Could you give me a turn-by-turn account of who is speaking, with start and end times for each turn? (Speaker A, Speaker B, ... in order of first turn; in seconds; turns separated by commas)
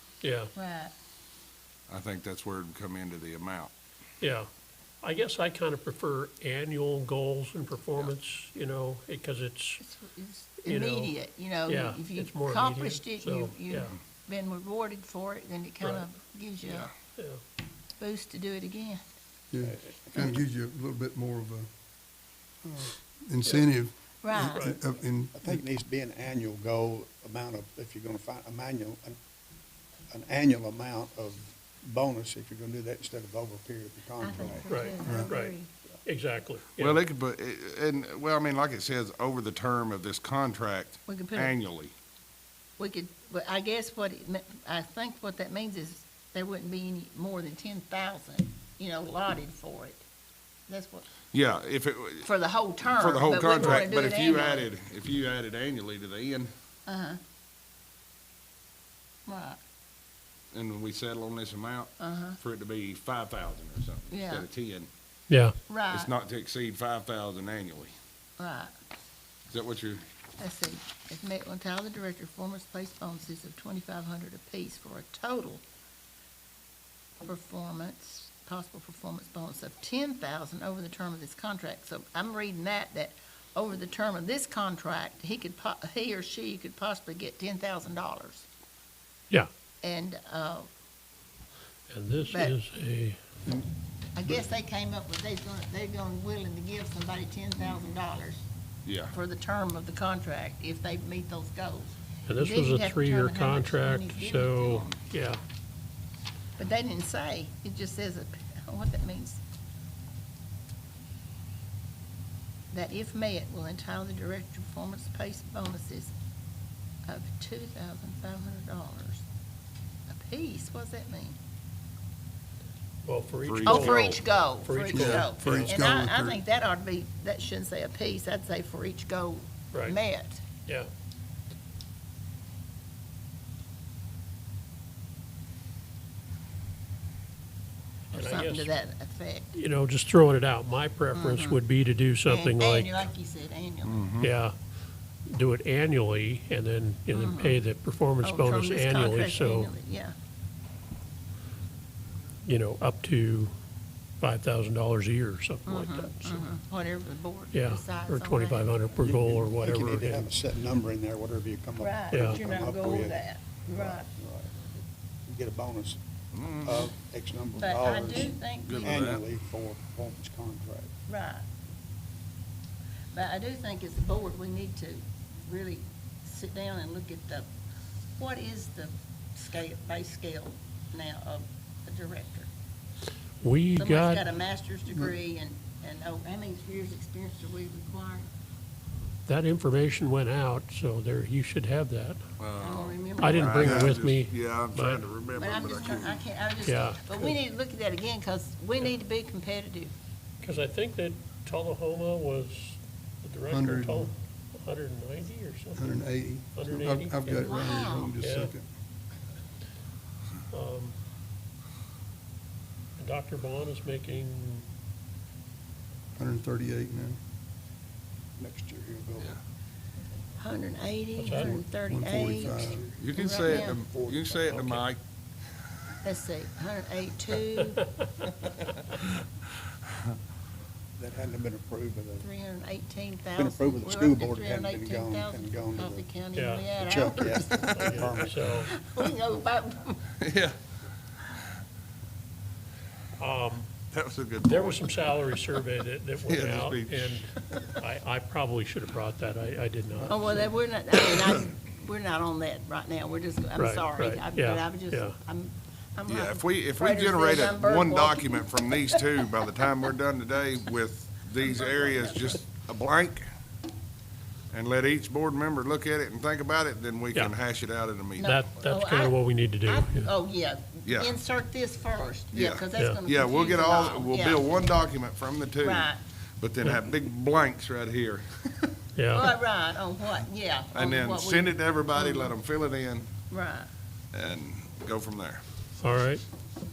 Speaker A: 0.2-0.5, Speaker B: 0.5-0.9, Speaker C: 1.9-3.7, Speaker A: 4.2-4.5, Speaker A: 5.0-9.8, Speaker B: 9.8-16.9, Speaker A: 10.7-11.1, Speaker A: 11.7-13.9, Speaker C: 16.6-16.9, Speaker B: 18.0-19.0, Speaker D: 19.5-21.7, Speaker E: 19.6-20.4, Speaker D: 22.6-25.6, Speaker B: 24.2-24.8, Speaker A: 24.3-24.8, Speaker E: 25.3-29.1, Speaker E: 30.1-34.6, Speaker B: 34.2-35.7, Speaker A: 34.7-37.0, Speaker D: 35.0-35.3, Speaker C: 36.8-41.9, Speaker B: 41.1-41.5, Speaker B: 42.8-50.0, Speaker B: 50.7-51.0, Speaker C: 51.3-52.3, Speaker B: 52.2-54.7, Speaker C: 52.9-56.5, Speaker B: 56.9-57.2, Speaker B: 59.2-59.6, Speaker C: 60.5-64.9, Speaker B: 62.0-62.4, Speaker B: 64.1-64.5, Speaker A: 65.3-65.5, Speaker B: 65.7-66.1, Speaker C: 65.9-67.9, Speaker B: 68.4-68.7, Speaker C: 69.5-70.0, Speaker B: 70.4-75.6, Speaker B: 77.2-88.5, Speaker B: 89.8-90.7, Speaker A: 91.9-93.2, Speaker B: 92.3-92.5, Speaker B: 94.2-98.4, Speaker C: 98.8-99.1, Speaker B: 99.1-104.9, Speaker A: 102.2-105.4, Speaker C: 104.7-105.0, Speaker B: 106.6-109.4, Speaker B: 112.7-116.1, Speaker B: 117.1-119.2, Speaker B: 120.1-121.3, Speaker A: 123.0-125.7, Speaker C: 123.5-124.2, Speaker B: 123.7-130.4, Speaker D: 124.9-126.4, Speaker A: 129.7-130.0, Speaker A: 138.1-138.7, Speaker B: 138.1-139.5, Speaker A: 139.5-143.1, Speaker B: 141.1-141.6, Speaker B: 142.2-144.0, Speaker C: 143.8-144.3, Speaker A: 144.2-144.5, Speaker A: 145.3-149.7, Speaker B: 147.1-147.6, Speaker B: 148.2-150.1, Speaker A: 152.4-153.5, Speaker A: 154.2-156.5, Speaker B: 155.7-158.7, Speaker A: 157.5-160.3, Speaker E: 159.0-164.7, Speaker B: 161.8-164.1, Speaker A: 162.1-162.4, Speaker E: 165.2-166.0, Speaker C: 166.3-166.9, Speaker E: 166.6-170.9, Speaker B: 167.6-169.0, Speaker C: 168.7-169.2, Speaker B: 171.1-171.4, Speaker B: 173.1-177.5, Speaker B: 178.2-182.5, Speaker A: 183.4-184.2, Speaker B: 183.8-188.3, Speaker A: 189.2-192.2, Speaker C: 192.4-196.2, Speaker B: 192.6-193.8, Speaker A: 193.2-195.0, Speaker D: 193.6-194.0, Speaker B: 195.3-199.9, Speaker A: 196.6-197.4, Speaker A: 200.4-208.5, Speaker D: 203.5-204.1, Speaker D: 205.8-208.6, Speaker B: 207.3-208.2, Speaker A: 210.5-210.9, Speaker A: 213.0-214.7, Speaker D: 216.2-217.2, Speaker E: 218.4-219.4, Speaker B: 220.4-223.8, Speaker A: 221.2-221.6, Speaker D: 221.3-222.9, Speaker E: 222.3-224.8, Speaker C: 223.0-225.0, Speaker B: 226.0-227.8, Speaker E: 231.0-232.2, Speaker B: 232.2-237.8, Speaker E: 233.4-236.1, Speaker A: 236.3-236.7, Speaker E: 236.8-238.5, Speaker A: 237.2-238.7, Speaker B: 238.6-240.0, Speaker C: 240.2-240.5, Speaker A: 243.2-243.7, Speaker C: 243.9-244.9, Speaker A: 244.4-250.5, Speaker C: 246.2-247.2, Speaker B: 250.1-259.0, Speaker A: 253.6-255.2, Speaker C: 256.1-263.3, Speaker B: 261.4-262.3, Speaker C: 264.5-268.3, Speaker B: 268.2-274.4, Speaker A: 268.2-270.1, Speaker C: 270.8-271.1, Speaker C: 272.3-278.5, Speaker B: 275.6-276.0, Speaker A: 278.9-279.3, Speaker B: 279.1-282.3, Speaker C: 280.7-283.1, Speaker B: 283.3-283.7, Speaker C: 284.1-285.4, Speaker A: 285.8-286.2